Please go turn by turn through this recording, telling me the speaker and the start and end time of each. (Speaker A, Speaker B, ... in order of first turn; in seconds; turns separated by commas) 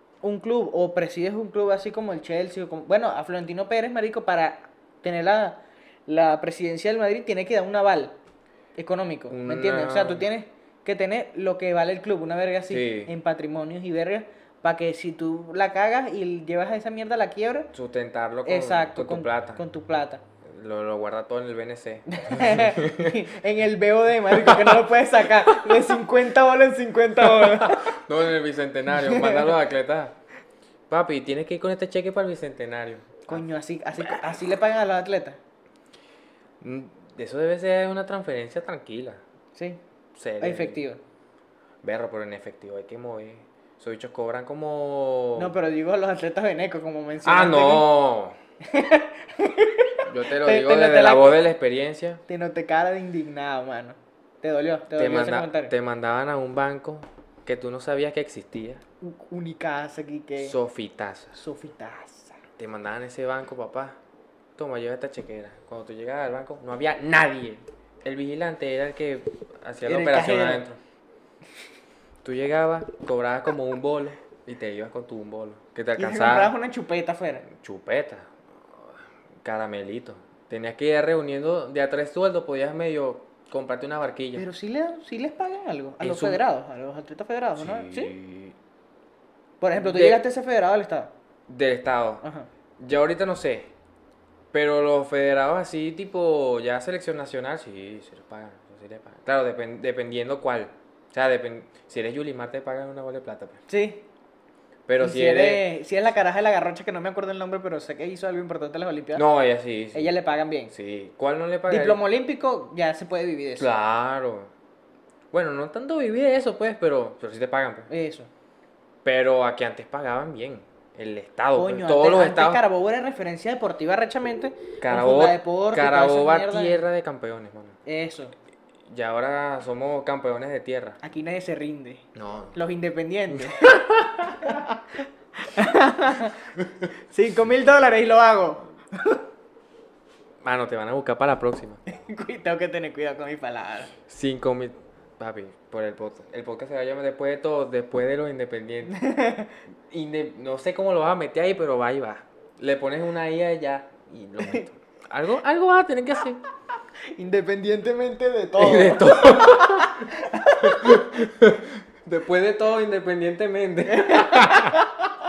Speaker A: 0.2-8.1, Speaker A: 8.8-17.7, Speaker B: 9.3-10.3, Speaker B: 12.7-13.1, Speaker B: 17.7-19.6, Speaker A: 18.4-20.2, Speaker B: 20.4-23.2, Speaker A: 22.1-28.0, Speaker B: 24.3-26.0, Speaker B: 27.2-30.1, Speaker A: 28.9-29.5, Speaker B: 30.9-33.4, Speaker A: 33.2-35.4, Speaker B: 34.0-34.4, Speaker B: 36.6-39.2, Speaker A: 39.5-39.8, Speaker B: 40.1-40.8, Speaker A: 40.4-41.0, Speaker B: 41.8-45.5, Speaker A: 45.4-47.9, Speaker B: 47.2-48.4, Speaker A: 48.6-51.4, Speaker B: 50.0-52.2, Speaker A: 52.3-55.7, Speaker B: 54.9-58.8, Speaker A: 59.0-60.5, Speaker B: 60.4-61.4, Speaker A: 61.4-62.4, Speaker B: 62.6-64.0, Speaker B: 64.6-70.8, Speaker A: 69.8-70.6, Speaker B: 72.2-76.5, Speaker A: 76.0-77.5, Speaker B: 77.5-78.3, Speaker B: 79.4-84.4, Speaker A: 84.3-88.1, Speaker B: 86.0-86.4, Speaker B: 87.5-88.5, Speaker A: 89.6-91.1, Speaker B: 89.7-90.2, Speaker B: 91.5-92.2, Speaker A: 92.2-92.5, Speaker B: 92.8-93.7, Speaker B: 94.5-103.6, Speaker A: 103.7-104.0, Speaker B: 104.9-105.6, Speaker A: 105.0-109.2, Speaker B: 109.1-110.1, Speaker A: 109.9-110.7, Speaker B: 110.7-112.0, Speaker A: 111.7-113.7, Speaker B: 113.6-114.5, Speaker B: 115.3-117.9, Speaker A: 117.9-118.3, Speaker B: 119.0-122.6, Speaker A: 121.5-126.8, Speaker B: 124.8-127.8, Speaker A: 127.8-128.3, Speaker B: 128.9-131.0, Speaker A: 131.0-134.8, Speaker B: 132.1-132.6, Speaker B: 133.3-134.6, Speaker A: 135.4-136.5, Speaker A: 137.1-139.2, Speaker B: 140.4-141.8, Speaker A: 141.9-143.9, Speaker B: 144.1-149.0, Speaker A: 148.8-149.5, Speaker B: 149.9-156.4, Speaker A: 157.1-161.1, Speaker B: 158.6-160.1, Speaker B: 160.6-164.8, Speaker A: 163.9-164.9